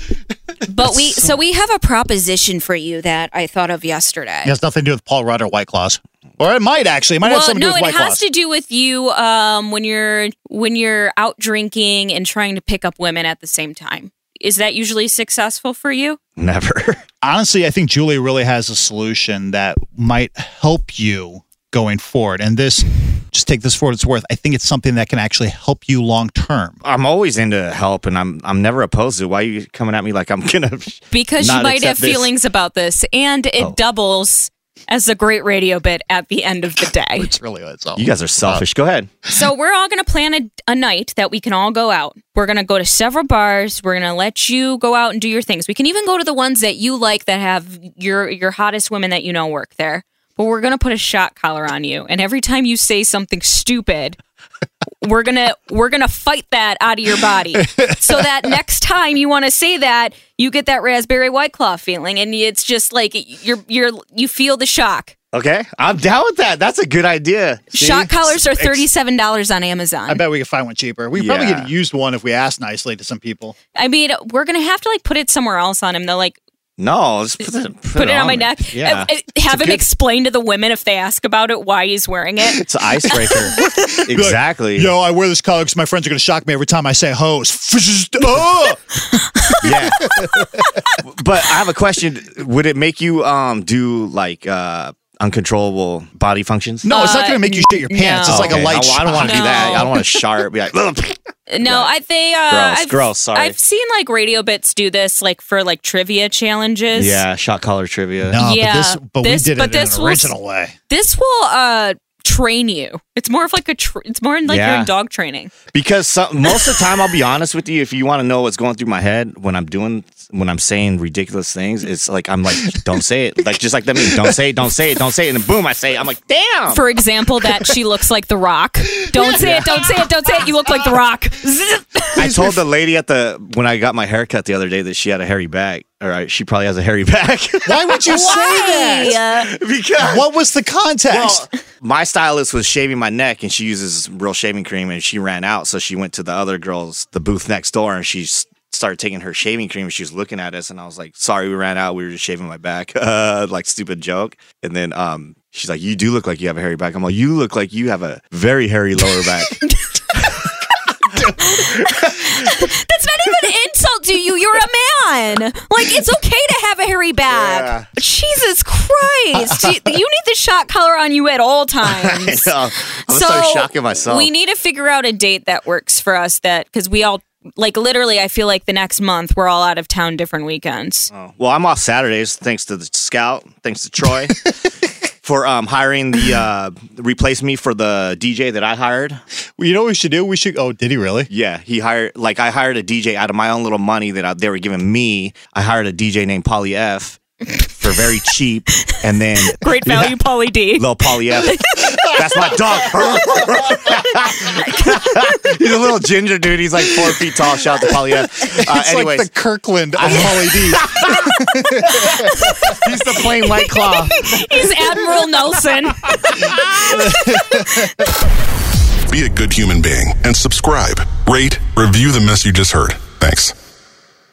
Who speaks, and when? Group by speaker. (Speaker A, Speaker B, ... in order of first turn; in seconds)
Speaker A: 0.7-4.5, 7.2-16.2, 31.1-37.3, 39.3-54.2, 55.0-65.2, 67.7-70.2, 73.8-76.4, 78.0-84.0, 89.4-89.6, 96.9-100.2, 101.5-107.2, 108.4-110.3, 110.9-115.5, 126.7-132.6, 138.1-139.5, 159.2-160.5, 161.2-172.6, 173.1-181.1, 199.5-201.7, 204.6-205.5, 212.3-218.0
Speaker B: 4.4-8.2, 17.2-26.8, 37.2-38.7, 57.6-58.0, 67.8-68.8, 70.1-73.6, 78.8-79.0, 83.5-90.8, 96.8-99.9, 108.3-110.7, 137.7-139.2, 140.0-141.5, 189.6-191.3, 201.8-203.7, 208.4-213.2, 213.8-214.7, 216.4-218.1
Speaker C: 16.4-17.0, 26.8-32.3, 38.0-39.1, 65.3-67.8, 71.2-71.7, 76.8-79.8, 82.5-84.9, 89.6-96.9, 98.3-101.9, 102.5-103.6, 106.9-108.4, 114.5-114.9, 115.7-126.8, 129.2-129.9, 132.2-140.3, 141.1-159.6, 160.2-160.4, 161.1-162.5, 167.3-167.9, 171.9-174.3, 181.1-184.5, 185.2-189.2, 191.3-200.1, 200.8-209.3, 209.9-214.4
Speaker D: 219.1-223.6